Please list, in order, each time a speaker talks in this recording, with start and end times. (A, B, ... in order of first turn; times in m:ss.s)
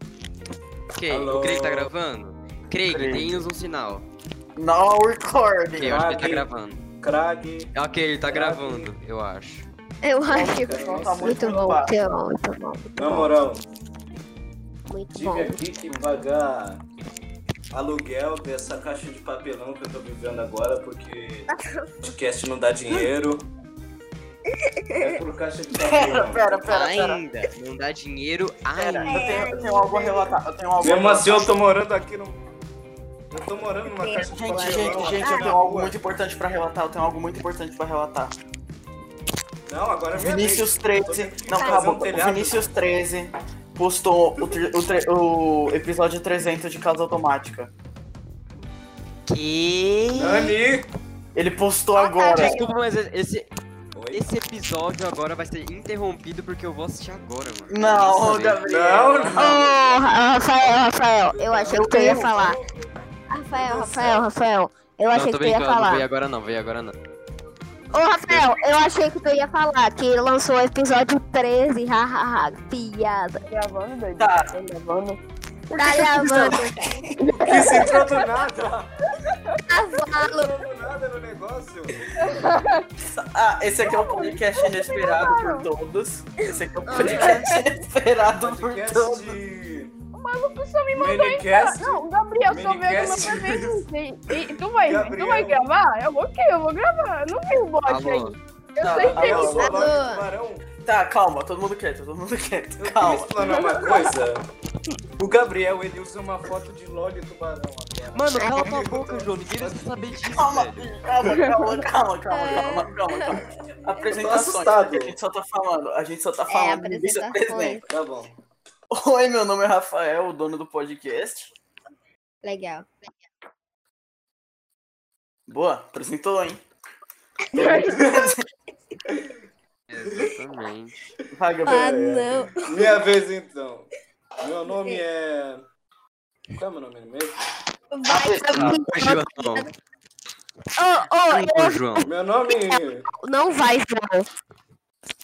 0:00.9-0:04.0 A
0:01.1-0:01.9 B
0:02.9-0:03.4 C
0:04.6-0:06.0 C
0:05.8-0:06.8 A
0:05.8-0:07.7 B
0:07.8-0:09.7 A
0:08.3-0:08.9 B
0:10.0-0:13.3 D
0:10.3-0:12.0 C
0:10.4-0:11.6 B
0:13.0-0:13.6 B
0:14.9-0:15.6 D
0:15.1-0:16.8 B
0:17.7-0:21.5 B
0:21.5-0:22.1 D
0:22.0-0:23.5 B
0:24.5-0:25.1 D
0:25.0-0:26.7 B
0:25.7-0:27.2 C
0:26.7-0:29.4 A
0:28.7-0:31.6 C
0:29.1-0:30.4 D
0:30.8-0:32.4 B
0:33.3-0:36.0 B
0:33.8-0:35.5 D
0:34.2-0:38.4 C
0:39.7-0:42.7 B
0:40.2-0:47.7 C
0:41.5-0:41.9 D
0:44.4-0:44.7 B
0:49.3-0:50.6 A
0:50.1-0:50.9 B
0:51.4-0:52.6 C
0:52.0-0:52.8 D
0:52.3-0:53.5 A
0:54.0-0:54.2 B
0:54.1-0:58.6 A
0:57.7-0:59.7 C
0:58.6-1:00.1 B
0:59.3-1:02.6 D
1:01.3-1:02.7 B
1:01.7-1:02.3 C
1:03.3-1:06.0 D
1:03.5-1:04.3 B
1:05.1-1:06.9 A
1:07.9-1:13.5 D
1:13.4-1:15.2 E
1:14.2-1:14.5 C
1:15.8-1:18.3 D
1:15.8-1:17.3 C
1:17.2-1:17.9 E
1:17.4-1:18.9 B
1:19.7-1:20.6 D
1:20.1-1:22.3 B
1:22.2-1:22.9 E
1:23.0-1:29.4 C
1:23.8-1:25.7 E
1:26.5-1:27.5 D
1:27.0-1:27.4 E
1:28.4-1:29.9 B
1:30.1-1:39.7 E
1:30.9-1:33.8 B
1:34.8-1:35.6 B
1:37.8-1:38.4 A
1:38.8-1:39.9 C
1:39.0-1:40.7 B
1:39.4-1:40.2 D
1:40.8-1:43.3 C
1:42.8-1:44.4 B
1:43.4-1:44.0 E
1:45.2-1:50.0 B
1:48.1-1:50.9 A
1:48.3-1:48.9 D
1:50.3-1:57.8 C
1:51.3-1:51.8 E
1:52.3-1:54.1 D
1:54.1-1:55.2 B
1:56.5-1:57.8 D
1:57.9-1:58.3 B
1:58.9-2:01.5 C
2:02.4-2:03.1 D
2:05.5-2:06.6 C
2:07.5-2:08.4 C
2:07.6-2:08.3 D
2:09.9-2:11.0 A
2:10.1-2:10.3 B
2:11.3-2:12.0 C
2:11.6-2:13.0 D
2:11.7-2:15.6 B
2:14.7-2:15.0 D
2:16.6-2:17.5 B
2:17.9-2:19.7 D
2:18.1-2:18.8 C
2:18.5-2:19.7 A
2:20.8-2:24.3 D
2:21.3-2:22.1 A
2:22.0-2:23.1 B